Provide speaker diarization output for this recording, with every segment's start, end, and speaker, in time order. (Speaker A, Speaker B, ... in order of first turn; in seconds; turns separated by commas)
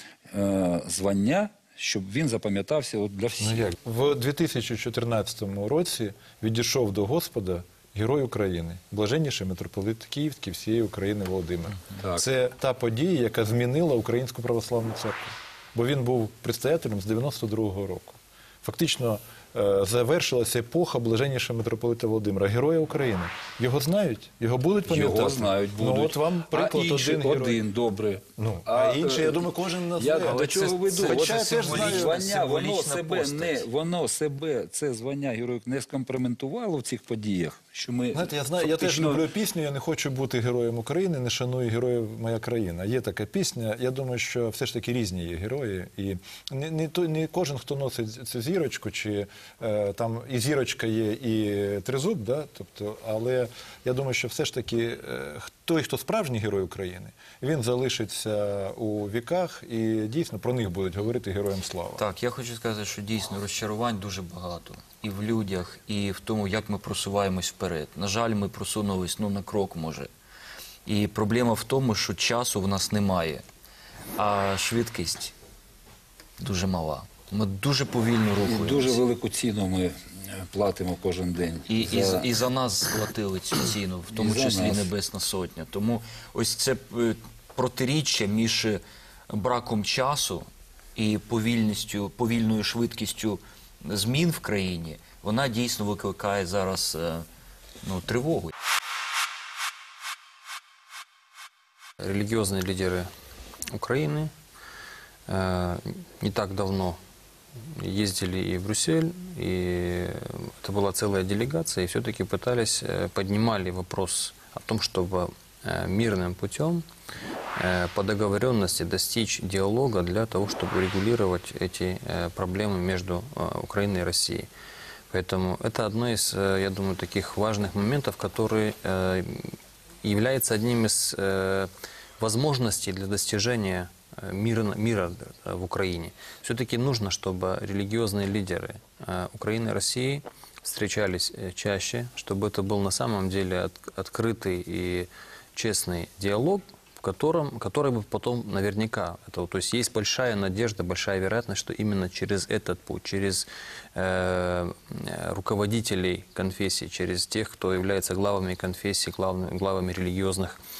Speaker A: 0.3-3.7, Speaker B: 3.4-27.6, Speaker A: 12.0-12.2, Speaker A: 24.9-39.2, Speaker B: 28.4-32.2, Speaker C: 30.1-33.6, Speaker B: 38.1-62.0, Speaker C: 62.0-70.1, Speaker C: 70.8-73.4, Speaker C: 74.2-75.3, Speaker C: 76.4-79.0, Speaker A: 78.4-82.3, Speaker C: 81.7-97.3, Speaker A: 84.1-84.9, Speaker C: 97.8-98.5, Speaker D: 102.0-103.1, Speaker D: 103.7-104.3, Speaker D: 105.3-107.0, Speaker D: 107.6-116.8, Speaker D: 117.5-124.5, Speaker D: 125.1-160.6